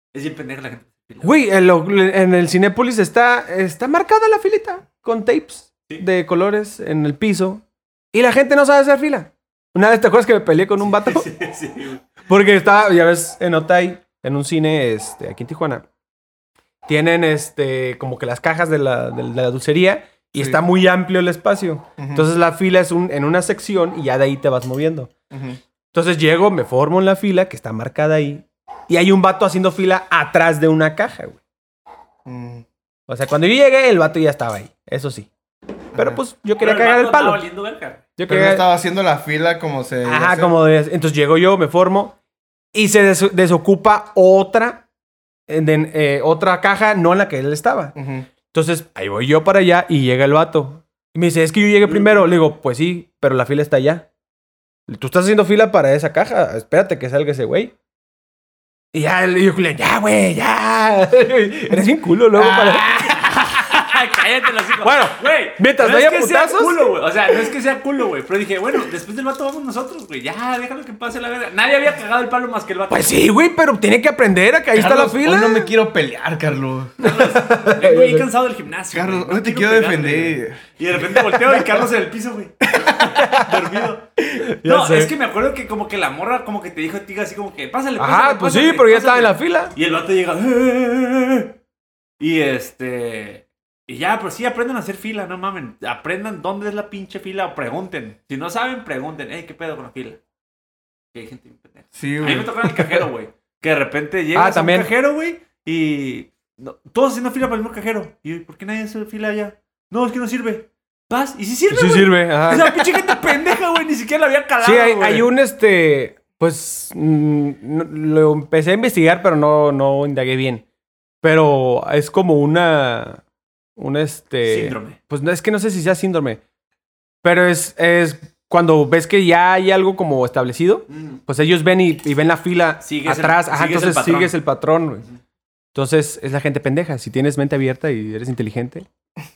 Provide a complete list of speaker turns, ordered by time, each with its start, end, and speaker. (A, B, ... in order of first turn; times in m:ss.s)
0:00.1-0:01.4 A
0:01.2-0:11.3 B
0:10.8-0:12.1 A
0:12.2-0:15.8 B
0:16.8-0:25.1 B
0:20.3-0:20.6 C
0:22.0-0:22.3 C
0:25.3-0:25.6 C
0:25.9-0:31.4 B
0:32.2-0:32.6 C
0:33.1-0:35.3 B
0:35.9-0:37.4 B
0:35.9-0:36.2 C
0:36.6-0:38.1 A
0:38.2-0:38.7 B
0:38.3-0:40.6 C
0:40.0-0:42.2 B
0:42.7-0:44.8 B
0:45.5-0:47.9 B
0:47.9-0:48.3 C
0:48.5-0:54.1 B
0:51.9-0:52.2 C
0:54.9-0:57.7 B
0:58.9-1:03.3 B
1:02.4-1:02.8 C
1:02.7-1:13.1 A
1:04.8-1:06.8 B
1:12.9-1:15.7 B
1:14.7-1:17.0 C
1:17.0-1:24.1 A
1:17.0-1:18.2 B
1:18.9-1:20.6 C
1:22.7-1:23.1 C
1:23.2-1:23.6 B
1:24.4-1:25.1 B
1:24.6-1:31.6 A
1:28.0-1:29.7 B
1:32.2-1:40.2 A
1:41.1-1:55.3 A
1:42.0-1:42.6 C
1:42.7-1:43.0 B
1:44.3-1:44.9 B
1:51.7-1:53.2 B
1:54.6-2:00.6 B
2:01.2-2:03.2 B
2:03.8-2:06.4 B
2:04.4-2:05.0 A
2:07.2-2:15.0 B
2:10.9-2:11.2 A
2:12.8-2:14.4 A
2:15.7-2:18.8 B